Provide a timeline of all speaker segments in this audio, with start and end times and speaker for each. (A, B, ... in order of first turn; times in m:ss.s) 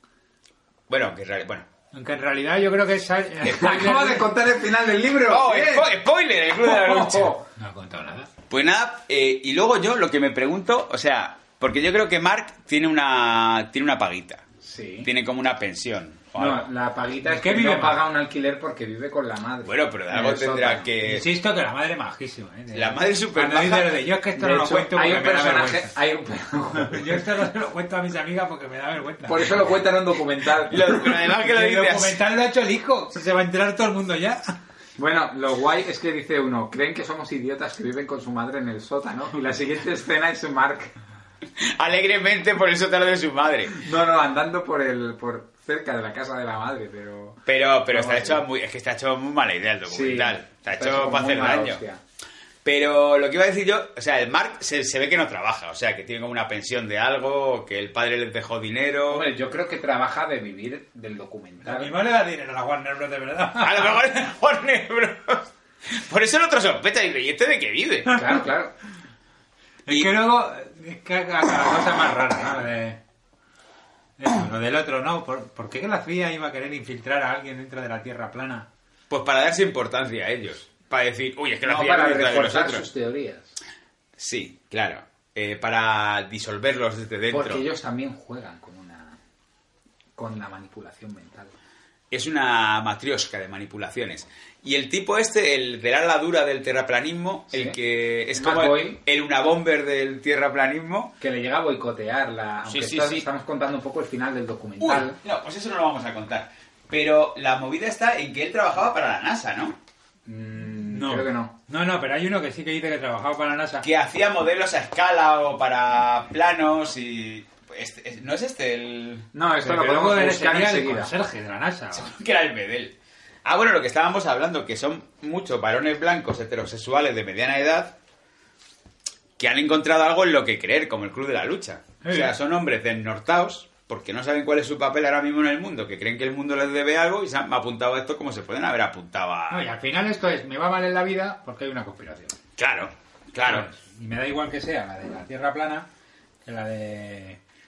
0:00.9-0:01.7 A
0:01.9-0:04.3 B
0:03.4-0:05.9 C
0:05.2-0:07.3 A
0:06.6-0:07.4 C
0:07.6-0:08.3 B
0:08.5-0:14.4 A
0:14.6-0:15.1 C
0:15.0-0:16.7 A
0:16.4-0:20.9 C
0:17.3-0:18.0 B
0:19.6-0:21.4 A
0:21.0-0:25.9 B
0:22.7-0:24.0 A
0:24.4-0:27.2 C
0:26.8-0:29.5 B
0:29.2-0:31.0 C
0:30.6-0:32.2 A
0:30.9-0:34.5 B
0:35.0-0:40.9 C
0:41.6-0:43.8 A
0:43.8-0:48.4 C
0:47.4-0:51.8 A
0:49.9-0:52.0 C
0:52.6-0:59.3 A
0:59.1-1:01.9 C
1:01.6-1:04.0 B
1:03.6-1:08.2 A
1:08.1-1:08.7 C
1:09.8-1:13.0 B
1:09.9-1:10.1 A
1:14.2-1:18.7 B
1:19.1-1:22.9 A
1:21.6-1:23.5 C
1:24.2-1:27.6 A
1:27.3-1:29.2 C
1:30.2-1:31.5 C
1:32.1-1:41.2 A
1:37.5-1:37.8 C
1:38.3-1:39.0 C
1:41.2-1:45.2 C
1:42.6-1:43.3 A
1:44.8-1:49.8 A
1:50.2-1:51.5 C
1:50.9-1:53.9 B
1:53.8-1:59.3 A
1:59.3-2:01.1 C
1:59.6-2:02.1 B
2:01.9-2:08.0 A
2:09.4-2:19.7 A
2:12.0-2:12.3 B
2:19.5-2:22.3 B
2:22.6-2:23.7 A
2:23.4-2:25.9 B
2:26.4-2:27.4 B